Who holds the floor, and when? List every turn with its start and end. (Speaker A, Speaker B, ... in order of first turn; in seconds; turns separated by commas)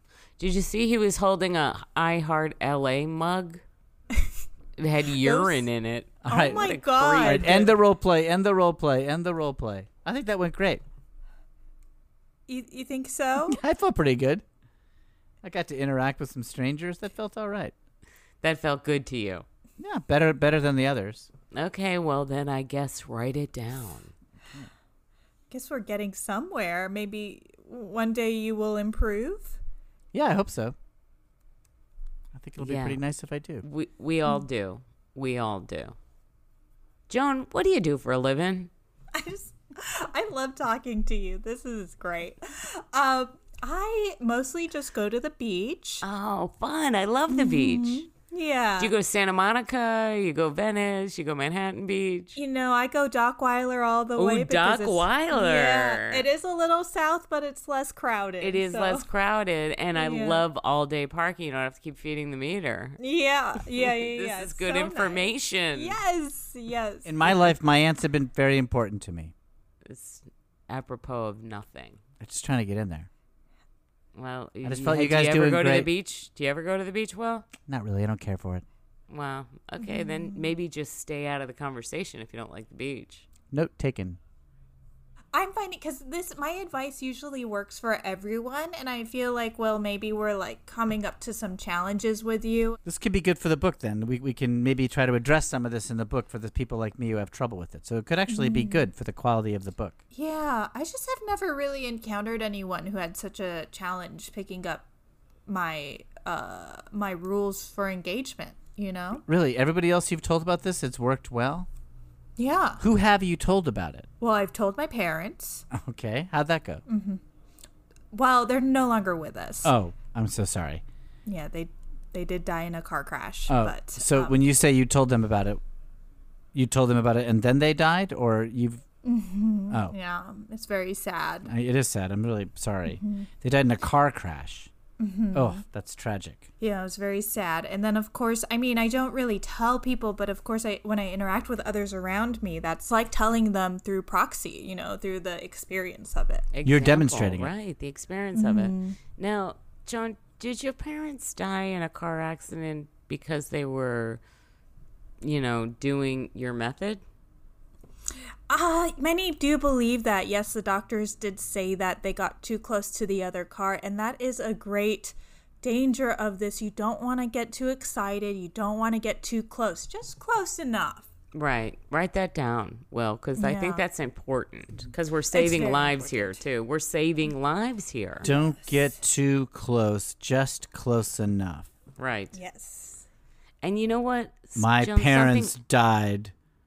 Speaker A: 0.4-3.6, Speaker A: 4.8-7.7, Speaker B: 5.2-5.6, Speaker C: 6.2-10.8, Speaker B: 6.3-7.7, Speaker B: 12.5-13.6, Speaker C: 13.5-14.4, Speaker C: 15.4-17.7, Speaker A: 18.4-19.4, Speaker C: 19.8-21.3, Speaker A: 21.5-24.1, Speaker B: 25.5-29.6, Speaker C: 30.1-30.8, Speaker C: 32.3-33.6, Speaker A: 32.6-33.0, Speaker A: 33.6-36.0, Speaker A: 37.1-38.7, Speaker B: 39.1-46.0, Speaker A: 46.0-48.0, Speaker B: 47.3-48.9, Speaker A: 48.8-52.4, Speaker B: 52.4-59.0, Speaker A: 54.2-56.2, Speaker A: 58.4-63.0, Speaker B: 59.9-60.4, Speaker B: 63.0-67.5, Speaker A: 63.7-66.0, Speaker C: 67.0-69.3, Speaker A: 69.8-72.0, Speaker C: 72.2-73.1, Speaker A: 74.1-77.5, Speaker C: 74.6-75.9, Speaker C: 77.6-78.6, Speaker A: 79.1-83.2, Speaker B: 79.8-80.5, Speaker C: 83.5-84.2, Speaker B: 85.3-92.8, Speaker C: 92.8-100.0, Speaker B: 98.3-98.9, Speaker B: 100.1-104.8, Speaker B: 105.5-109.2, Speaker C: 109.2-111.7, Speaker B: 112.4-112.8, Speaker C: 112.8-114.1, Speaker B: 114.2-115.6, Speaker C: 115.7-116.8, Speaker B: 116.9-117.2, Speaker B: 118.1-119.7, Speaker C: 119.6-120.8, Speaker B: 121.2-124.3, Speaker C: 123.5-125.6, Speaker C: 126.5-128.8, Speaker B: 129.0-131.5, Speaker C: 129.7-129.9, Speaker C: 131.4-134.7, Speaker B: 132.9-133.3, Speaker B: 135.0-135.6, Speaker C: 135.3-136.5, Speaker B: 136.6-146.4, Speaker A: 146.5-154.2, Speaker C: 146.6-147.5, Speaker B: 148.3-149.0, Speaker A: 155.2-157.0, Speaker B: 158.5-171.1, Speaker A: 171.3-178.3, Speaker B: 173.4-173.8, Speaker B: 175.3-176.4, Speaker B: 178.2-178.6, Speaker C: 178.2-181.7, Speaker A: 182.0-182.4, Speaker B: 182.3-183.0, Speaker A: 183.6-185.6, Speaker C: 184.6-186.3